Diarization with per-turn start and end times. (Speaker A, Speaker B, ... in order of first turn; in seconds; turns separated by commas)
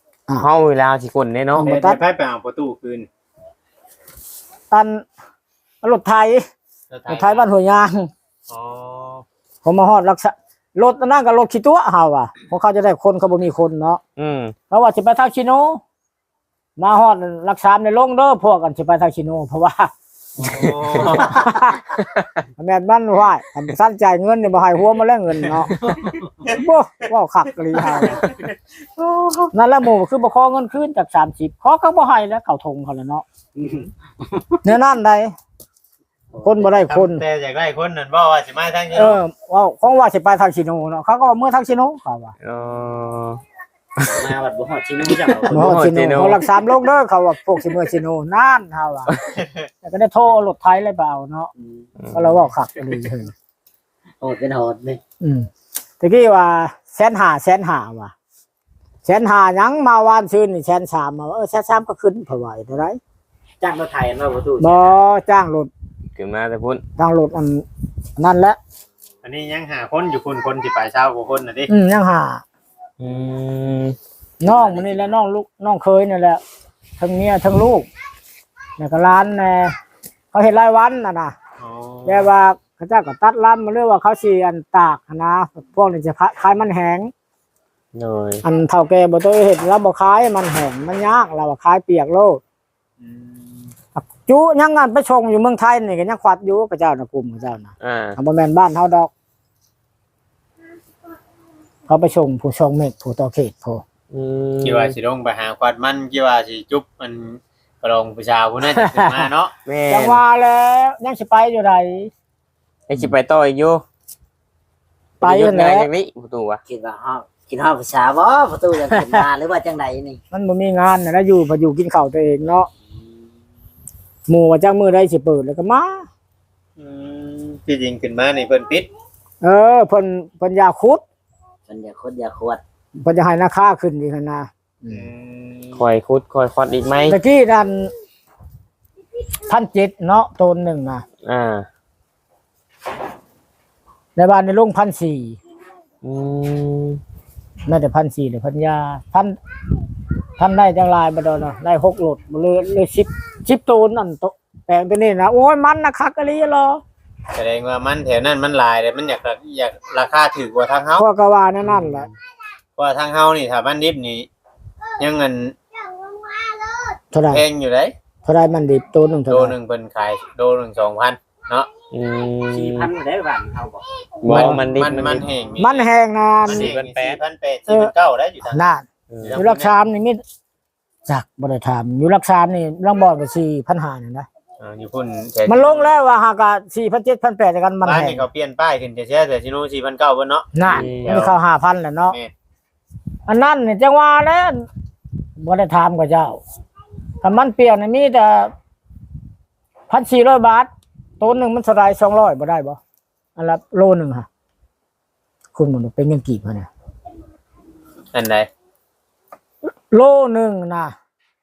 Speaker A: 0.4-1.7, Speaker B: 1.6-2.0, Speaker C: 1.6-3.1, Speaker B: 4.7-5.1, Speaker B: 5.8-6.4, Speaker C: 6.9-7.5, Speaker B: 7.1-8.1, Speaker C: 8.5-9.2, Speaker B: 9.6-14.0, Speaker A: 14.2-14.6, Speaker B: 14.7-15.8, Speaker B: 16.8-19.9, Speaker C: 20.4-21.4, Speaker B: 21.0-22.0, Speaker B: 22.6-25.8, Speaker C: 25.8-26.1, Speaker B: 26.5-28.2, Speaker C: 27.9-28.5, Speaker B: 29.5-33.2, Speaker D: 33.6-34.5, Speaker B: 34.6-35.3, Speaker D: 36.3-36.8, Speaker B: 36.4-37.2, Speaker C: 36.9-39.2, Speaker B: 39.0-42.4, Speaker A: 42.4-43.4, Speaker D: 44.0-45.7, Speaker C: 45.1-45.7, Speaker A: 45.5-46.4, Speaker B: 45.5-49.1, Speaker C: 49.4-49.6, Speaker B: 49.8-51.5, Speaker A: 52.0-52.4, Speaker B: 52.1-53.3, Speaker D: 54.2-55.0, Speaker B: 55.2-55.5, Speaker B: 56.0-58.1, Speaker B: 59.0-63.0, Speaker D: 63.6-64.9, Speaker B: 64.6-65.7, Speaker A: 66.2-66.8, Speaker B: 67.0-67.7, Speaker B: 68.2-68.6, Speaker C: 69.2-71.7, Speaker B: 71.7-72.4, Speaker A: 73.0-74.0, Speaker B: 74.4-76.4, Speaker B: 77.0-77.9, Speaker B: 78.8-79.8, Speaker B: 80.3-81.3, Speaker C: 81.6-82.3, Speaker B: 82.1-87.1, Speaker A: 87.9-88.4, Speaker B: 88.4-92.4, Speaker C: 93.0-93.7, Speaker B: 94.0-99.1, Speaker A: 97.8-98.2, Speaker B: 101.9-103.8, Speaker A: 104.1-105.0, Speaker C: 104.6-109.5, Speaker B: 108.8-109.2, Speaker A: 109.7-110.2, Speaker B: 109.9-112.1, Speaker A: 112.9-113.8, Speaker B: 115.2-115.9, Speaker A: 115.2-116.6, Speaker D: 116.7-120.2, Speaker B: 120.3-122.7, Speaker B: 124.3-126.1, Speaker C: 126.8-128.9, Speaker B: 129.4-131.0, Speaker D: 131.7-132.6, Speaker B: 133.0-135.1, Speaker C: 134.9-135.8, Speaker A: 135.8-137.2, Speaker B: 137.1-137.9, Speaker B: 139.5-141.0, Speaker A: 141.2-141.7, Speaker B: 144.2-145.4, Speaker A: 146.0-147.0, Speaker B: 147.7-149.3, Speaker B: 150.4-156.8, Speaker C: 157.3-161.1, Speaker B: 161.0-162.1, Speaker C: 162.8-164.3, Speaker C: 165.0-165.5, Speaker B: 167.1-167.4, Speaker C: 167.3-167.9, Speaker B: 168.2-169.6, Speaker C: 169.3-171.7, Speaker A: 171.9-172.9, Speaker D: 172.5-173.9, Speaker A: 174.2-175.3, Speaker C: 174.3-175.9, Speaker B: 174.3-174.6, Speaker B: 175.6-176.7, Speaker C: 176.5-179.7, Speaker A: 176.5-177.2, Speaker B: 178.4-178.8, Speaker A: 179.1-179.4, Speaker B: 179.3-180.2, Speaker B: 181.1-184.3, Speaker C: 184.6-185.9, Speaker B: 185.5-188.3, Speaker C: 187.8-191.3, Speaker B: 190.5-192.2, Speaker A: 190.7-191.2, Speaker B: 193.3-194.7, Speaker B: 195.4-196.4, Speaker B: 197.2-198.5, Speaker B: 199.9-202.8, Speaker B: 203.4-204.3, Speaker B: 205.6-206.7, Speaker C: 208.1-208.5, Speaker B: 209.9-210.9